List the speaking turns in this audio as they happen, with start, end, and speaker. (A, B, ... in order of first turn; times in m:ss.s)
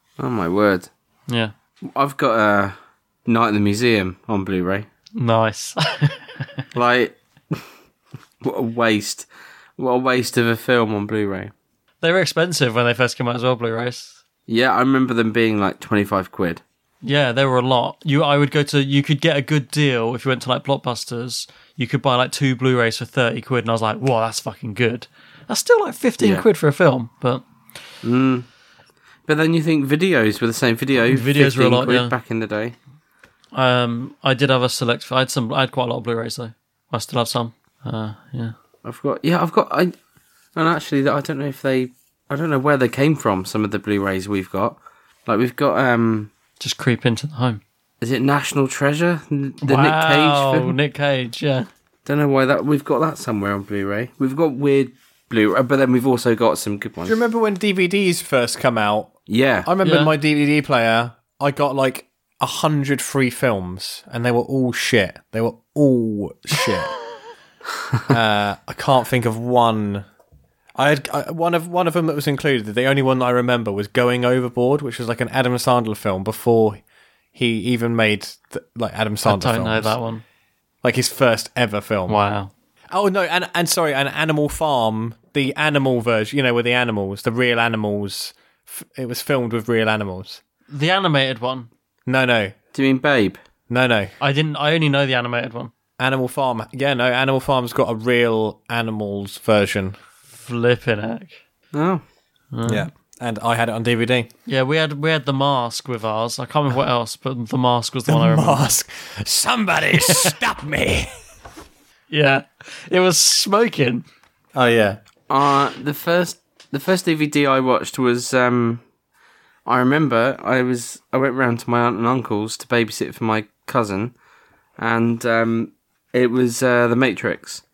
0:00.2-0:00.9 A
0:01.9-0:02.7 A
0:03.2-0:04.9 A
0:05.2-0:06.5 B
0:06.7-0:07.6 A
0:08.4-0:09.3 A
0:09.8-0:11.5 A
0:12.0-0:14.2 B
0:14.5-0:16.6 A
0:17.0-0:27.4 B
0:26.2-0:26.4 A
0:28.0-0:28.5 A
0:29.3-0:32.7 A
0:31.1-0:32.1 B
0:33.5-0:38.5 B
0:38.8-0:39.9 A
0:40.5-0:46.3 A
0:46.6-0:47.6 B
0:48.0-0:50.7 A
0:49.6-0:51.7 B
0:52.0-0:57.2 A
0:57.0-1:06.9 C
0:59.3-0:59.7 A
0:59.8-1:00.1 B
1:08.1-1:10.0 C
1:10.8-1:16.8 C
1:17.3-1:20.0 C
1:19.2-1:20.2 B
1:20.8-1:22.2 C
1:22.1-1:22.5 B
1:22.9-1:30.4 C
1:30.7-1:31.7 B
1:32.1-1:32.5 C
1:32.7-1:33.4 A
1:33.7-1:34.1 C
1:34.2-1:35.7 B
1:36.0-1:40.0 C
1:40.3-1:41.4 B
1:41.7-1:42.0 A
1:42.5-1:42.9 B
1:42.6-1:44.3 C
1:44.5-1:48.7 B
1:48.1-1:51.1 C
1:50.1-1:50.4 B
1:52.1-1:54.0 B
1:54.5-1:55.0 C
1:55.3-1:58.8 A
1:59.6-2:04.1 A
2:04.8-2:07.6 A